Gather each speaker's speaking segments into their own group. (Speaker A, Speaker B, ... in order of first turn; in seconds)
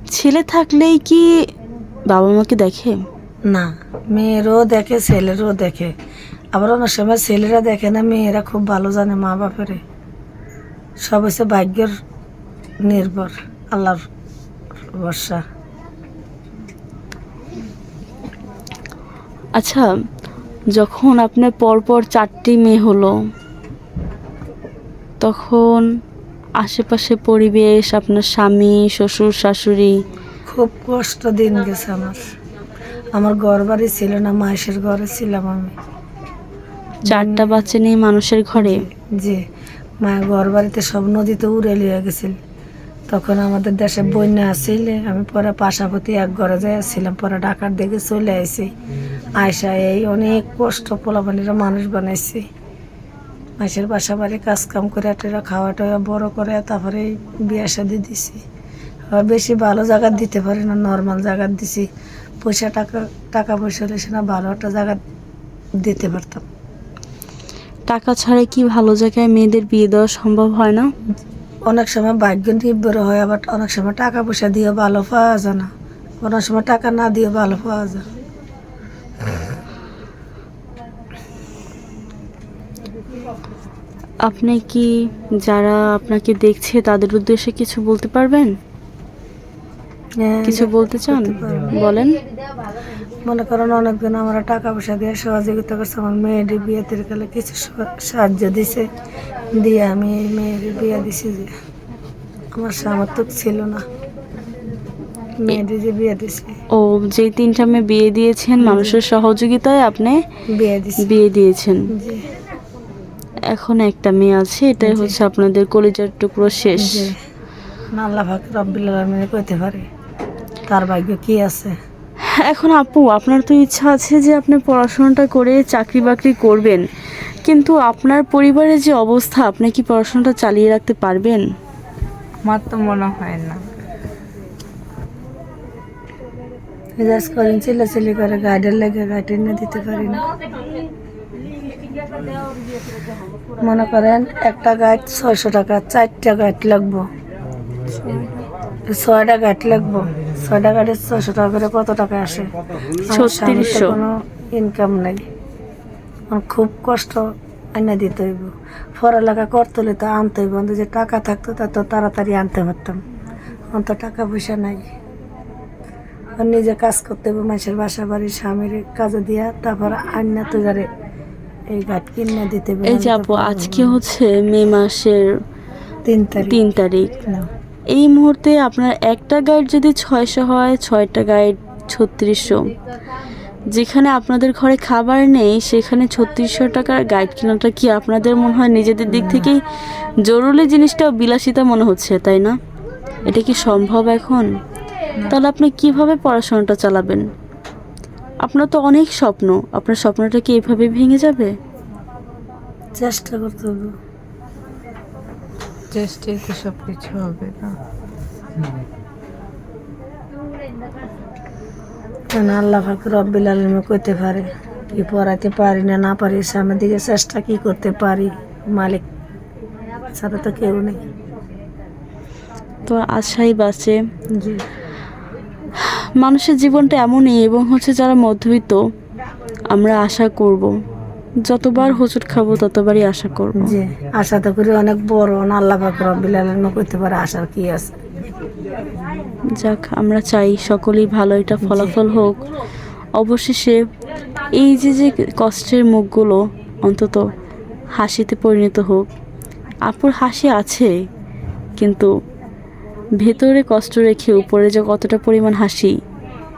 Speaker A: 0.1-1.2, 2.1-3.0, 19.6-19.9, 20.8-23.1, 25.2-25.9, 26.6-29.9, 37.1-38.8, 67.9-70.9, 84.2-84.9, 85.4-88.5, 90.5-92.2, 106.7-110.2, 111.0-111.8, 113.5-117.1, 122.4-126.8, 127.4-131.4, 153.1-154.0, 172.9-175.2, 176.4-177.1, 177.9-182.7, 183.7-192.6, 193.3-194.4, 195.3-197.2, 198.4-201.5, 222.9-224.0, 225.8-228.8, 229.7-230.7, 231.4-233.8, 239.6-242.4, 243.2-243.8, 244.5-247.2, 248.0-249.1, 249.9-250.9, 251.8-252.1, 253.2-255.9
Speaker B: 3.5-5.9, 6.5-9.8, 11.1-11.9, 12.8-14.0, 14.9-15.4, 30.5-32.2, 33.1-35.7, 37.0-37.6, 38.5-39.4, 40.0-42.4, 43.1-48.7, 49.4-52.4, 53.6-58.4, 59.1-61.9, 62.4-65.0, 65.8-66.5, 71.7-75.7, 76.2-78.0, 90.2-91.7, 93.3-98.9, 99.6-101.5, 102.6-103.8, 105.4-106.5, 108.6-109.0, 110.6-111.0, 111.9-112.2, 114.8-115.2, 116.8-117.2, 118.0-119.8, 120.7-121.7, 137.0-140.2, 143.6-147.1, 148.9-152.5, 153.0-155.2, 156.3-157.2, 157.8-163.0, 163.7-164.9, 166.4-170.9, 171.7-174.0, 176.1-176.6, 189.1-189.5, 203.0-203.9, 212.3-219.1, 220.1-221.0, 233.6-238.0, 241.6-241.9
Speaker C: 132.4-133.6, 147.9-148.4, 205.9-207.8